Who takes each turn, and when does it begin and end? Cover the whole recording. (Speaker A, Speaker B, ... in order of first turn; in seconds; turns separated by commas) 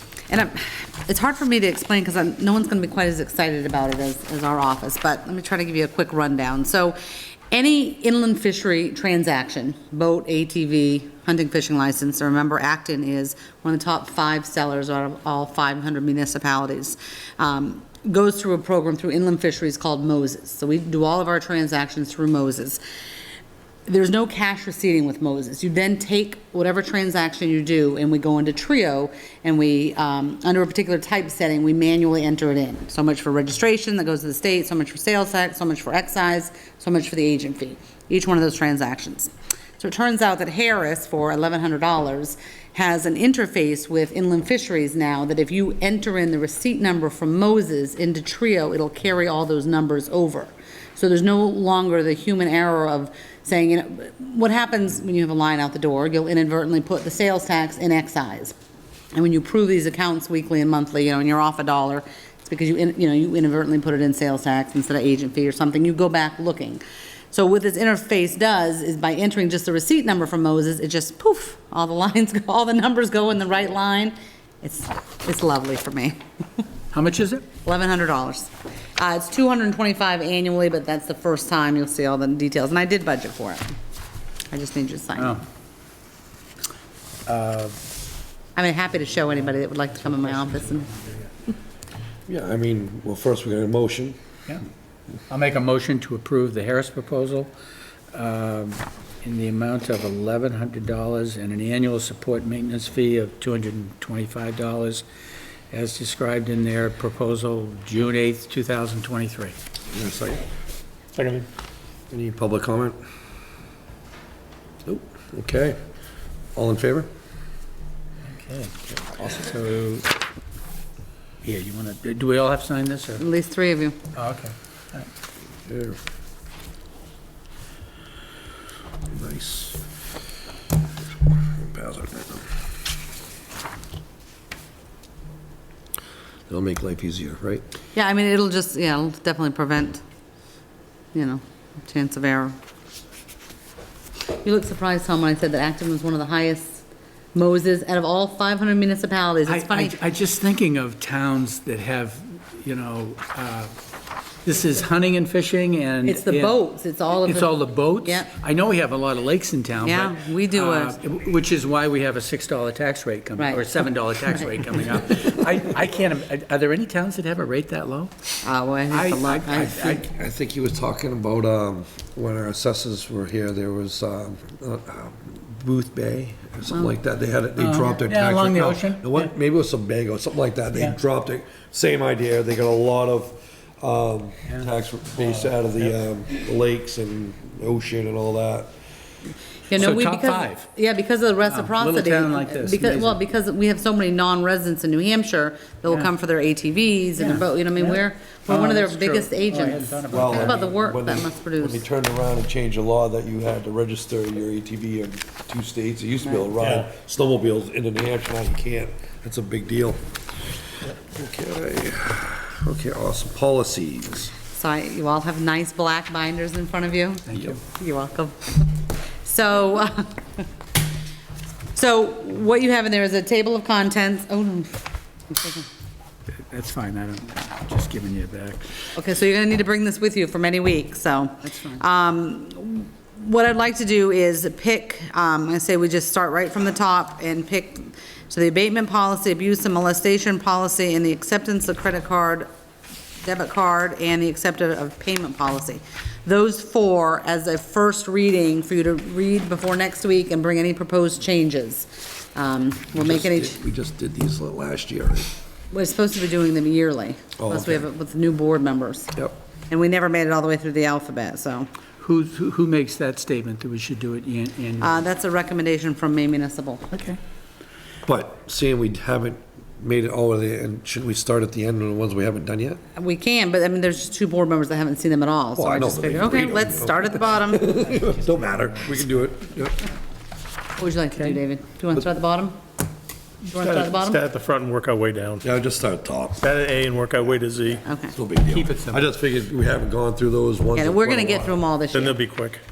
Speaker A: 0.3-7.0, Speaker A: 7.5-22.8, Speaker A: 23.9-58.5, Speaker A: 59.1-76.2, Speaker B: 76.9-77.4, Speaker A: 77.7-83.7, Speaker A: 84.5-85.4, Speaker B: 87.3-87.8, Speaker A: 88.6-90.9, Speaker B: 89.5-91.1, Speaker C: 92.3-94.2, Speaker B: 95.3-97.5, Speaker B: 98.1-105.0, Speaker B: 105.7-109.6, Speaker C: 109.9-110.5, Speaker D: 111.2-111.5, Speaker C: 112.1-113.0, Speaker C: 114.9-115.8, Speaker C: 116.5-117.1, Speaker B: 118.3-120.1, Speaker B: 121.4-123.2, Speaker A: 123.2-124.0, Speaker B: 124.2-125.1, Speaker C: 125.7-126.0, Speaker C: 129.1-129.8, Speaker C: 131.6-132.5, Speaker C: 136.5-137.7, Speaker A: 137.9-140.0, Speaker A: 141.1-142.6, Speaker A: 144.3-150.0, Speaker B: 149.5-153.7, Speaker B: 154.4-156.6, Speaker A: 156.0-158.3, Speaker B: 157.2-168.3, Speaker A: 159.8-161.0, Speaker A: 163.4-163.6, Speaker A: 168.4-169.9, Speaker B: 168.9-170.0, Speaker C: 169.6-188.7, Speaker B: 177.6-179.3, Speaker B: 184.5-185.6, Speaker A: 189.7-201.8, Speaker B: 189.7-190.7, Speaker B: 191.5-193.2, Speaker B: 197.2-200.8, Speaker C: 200.1-210.0, Speaker C: 210.9-214.3, Speaker A: 214.5-220.4, Speaker B: 217.3-217.6, Speaker A: 221.8-225.7, Speaker B: 226.4-228.7, Speaker A: 228.9-242.5, Speaker B: 231.4-231.8, Speaker A: 243.2-253.6, Speaker C: 252.9-255.3, Speaker A: 255.7-259.1, Speaker C: 257.4-257.9, Speaker A: 259.7-261.7, Speaker B: 262.0-265.0, Speaker A: 264.8-266.9, Speaker B: 266.9-267.2, Speaker C: 268.1-272.8, Speaker A: 273.0-277.9, Speaker C: 275.6-279.9, Speaker B: 277.8-279.1, Speaker A: 280.8-282.6, Speaker A: 283.4-284.2, Speaker D: 283.6-285.4, Speaker C: 285.4-286.4, Speaker D: 286.4-287.8, Speaker A: 287.9-288.2, Speaker C: 288.1-291.5, Speaker B: 288.4-289.1, Speaker A: 290.8-292.2, Speaker D: 291.9-292.6